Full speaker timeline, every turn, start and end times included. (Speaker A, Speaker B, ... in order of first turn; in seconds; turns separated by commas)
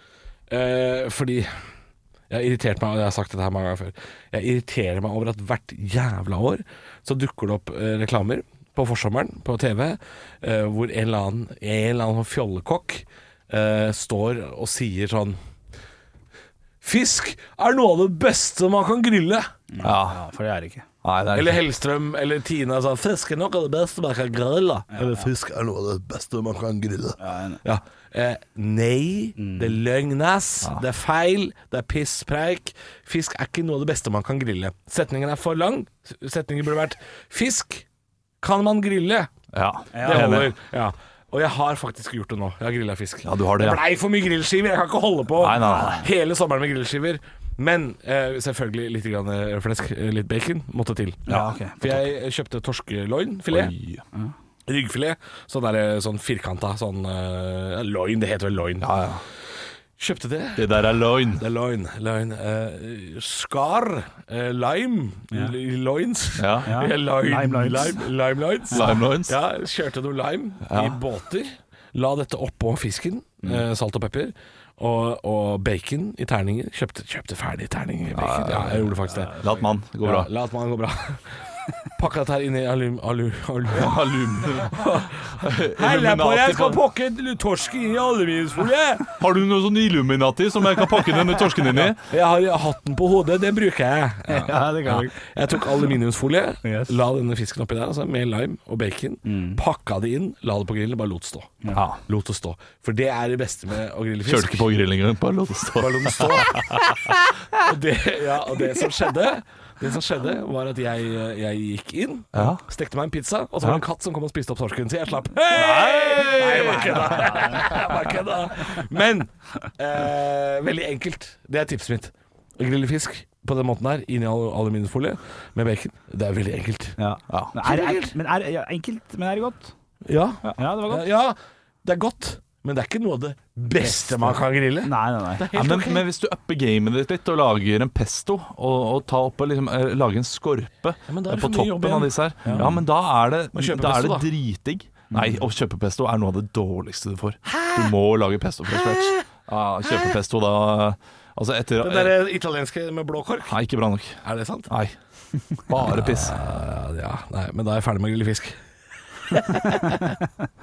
Speaker A: 0.5-1.6, Speaker A: 2.3-15.4, Speaker A: 16.8-19.5, Speaker B: 19.7-20.9, Speaker C: 19.8-20.2, Speaker C: 21.0-21.6, Speaker A: 21.3-37.9, Speaker B: 24.9-25.3, Speaker B: 27.2-27.6, Speaker B: 29.4-29.8, Speaker A: 38.4-39.3, Speaker C: 39.5-40.5, Speaker B: 39.9-40.3, Speaker A: 40.0-53.7, Speaker C: 43.2-43.8, Speaker C: 45.4-46.0, Speaker B: 45.6-46.1, Speaker B: 51.3-51.8, Speaker C: 53.5-54.0, Speaker A: 54.7-58.9, Speaker C: 58.8-59.2, Speaker A: 60.0-79.5, Speaker C: 60.6-61.4, Speaker C: 66.4-66.8, Speaker B: 66.7-68.0, Speaker C: 68.7-69.4, Speaker C: 70.7-71.0, Speaker C: 78.1-80.3, Speaker A: 80.0-81.4, Speaker A: 82.0-89.1, Speaker C: 83.7-86.8, Speaker C: 89.2-92.0, Speaker A: 91.7-104.7, Speaker B: 94.3-95.2, Speaker B: 96.6-96.9, Speaker B: 99.2-99.6, Speaker C: 101.7-102.0, Speaker C: 104.3-107.2, Speaker A: 105.8-127.0, Speaker C: 112.3-112.6, Speaker C: 115.5-117.4, Speaker B: 116.6-117.6, Speaker B: 127.0-129.7, Speaker C: 127.3-127.5, Speaker A: 127.6-128.2, Speaker A: 130.1-136.1, Speaker B: 130.4-131.1, Speaker B: 133.8-135.5, Speaker C: 135.5-152.2, Speaker A: 141.1-142.8, Speaker B: 142.4-142.7, Speaker A: 143.5-144.3, Speaker B: 145.1-145.4, Speaker A: 147.5-147.9, Speaker A: 148.7-149.2, Speaker A: 151.8-153.6, Speaker C: 153.5-155.0, Speaker A: 154.2-154.7, Speaker C: 155.7-156.4, Speaker A: 155.8-158.6, Speaker A: 159.3-160.1